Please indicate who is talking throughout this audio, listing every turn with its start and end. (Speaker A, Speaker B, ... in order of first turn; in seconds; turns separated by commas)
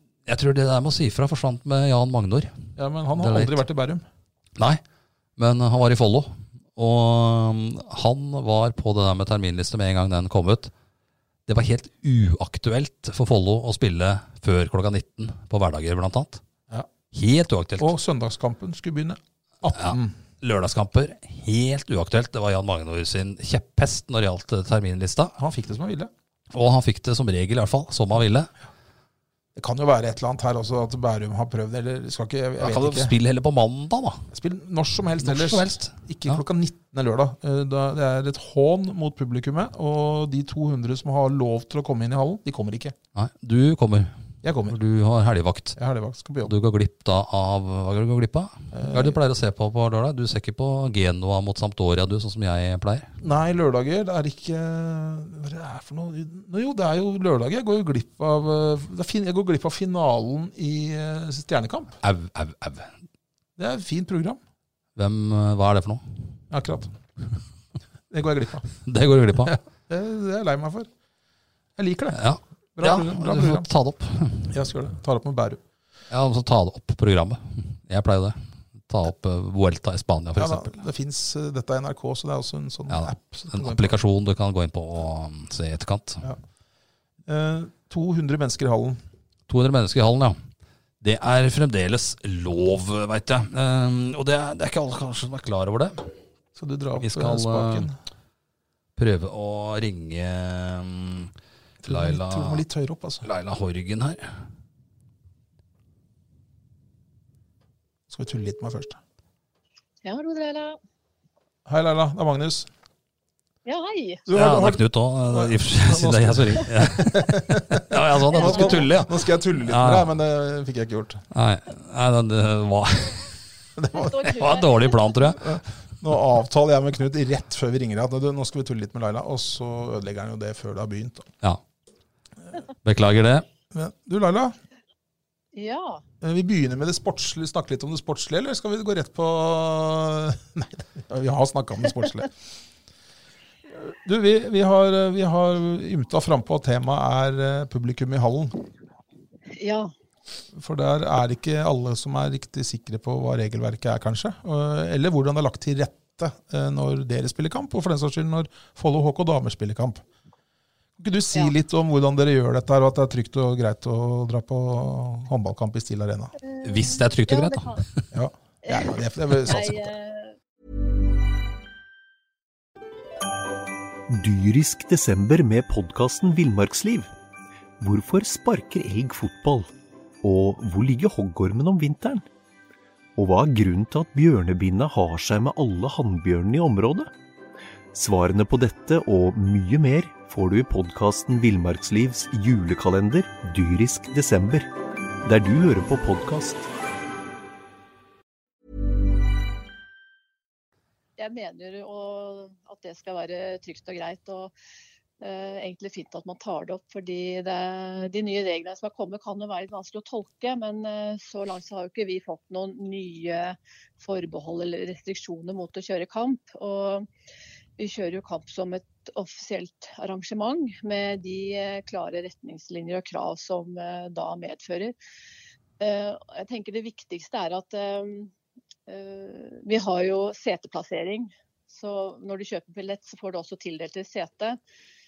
Speaker A: 0.3-2.5, Speaker B: 2.8-4.0, Speaker A: 3.2-3.6, Speaker A: 5.4-10.7, Speaker A: 11.5-16.4, Speaker A: 17.1-17.9, Speaker B: 17.8-20.2, Speaker A: 19.7-25.4, Speaker B: 25.4-26.1, Speaker A: 26.5-28.5, Speaker B: 29.6-33.1, Speaker A: 32.6-34.3, Speaker B: 34.3-43.0, Speaker A: 35.2-36.4, Speaker A: 43.1-44.1, Speaker B: 44.4-44.8, Speaker A: 44.7-45.8, Speaker B: 45.8-46.5, Speaker A: 46.4-53.1, Speaker B: 48.7-49.2, Speaker B: 53.2-62.0, Speaker A: 62.0-62.9, Speaker B: 63.6-64.4, Speaker A: 65.0-66.0, Speaker B: 66.5-66.9, Speaker B: 68.1-68.7, Speaker A: 68.8-69.6, Speaker B: 69.5-70.9, Speaker B: 71.8-72.2, Speaker A: 72.1-74.5, Speaker B: 72.8-73.7, Speaker B: 74.5-75.6, Speaker A: 76.1-80.7, Speaker B: 80.4-84.0, Speaker A: 82.9-86.3, Speaker B: 87.3-89.0, Speaker A: 89.5-90.4, Speaker A: 91.0-96.1, Speaker B: 96.6-97.9, Speaker A: 97.0-97.9, Speaker A: 99.0-101.3, Speaker B: 101.8-103.3, Speaker A: 101.8-102.6, Speaker A: 103.2-104.3, Speaker B: 108.1-109.0, Speaker C: 110.0-110.8, Speaker B: 111.7-112.7, Speaker C: 113.7-114.3, Speaker B: 114.3-121.2, Speaker A: 114.3-120.1, Speaker C: 118.3-118.9, Speaker A: 121.3-123.3, Speaker B: 123.8-124.3, Speaker C: 123.9-125.1, Speaker A: 124.2-125.6, Speaker B: 125.4-131.3, Speaker A: 132.8-133.4, Speaker B: 133.7-134.6, Speaker C: 135.5-136.0, Speaker B: 136.2-142.3, Speaker B: 143.7-148.6, Speaker C: 149.5-149.9, Speaker B: 150.5-160.0, Speaker B: 161.0-166.3, Speaker C: 166.4-167.8, Speaker A: 166.6-168.0, Speaker B: 168.1-169.9, Speaker C: 168.7-170.3, Speaker D: 174.1-177.1, Speaker D: 177.8-179.7, Speaker D: 180.2-182.3, Speaker D: 183.2-187.1, Speaker D: 187.9-194.7, Speaker D: 195.2-196.7, Speaker C: 201.2-204.5, Speaker C: 205.2-217.1, Speaker C: 217.8-224.9, Speaker C: 225.8-228.3, Speaker C: 228.9-234.6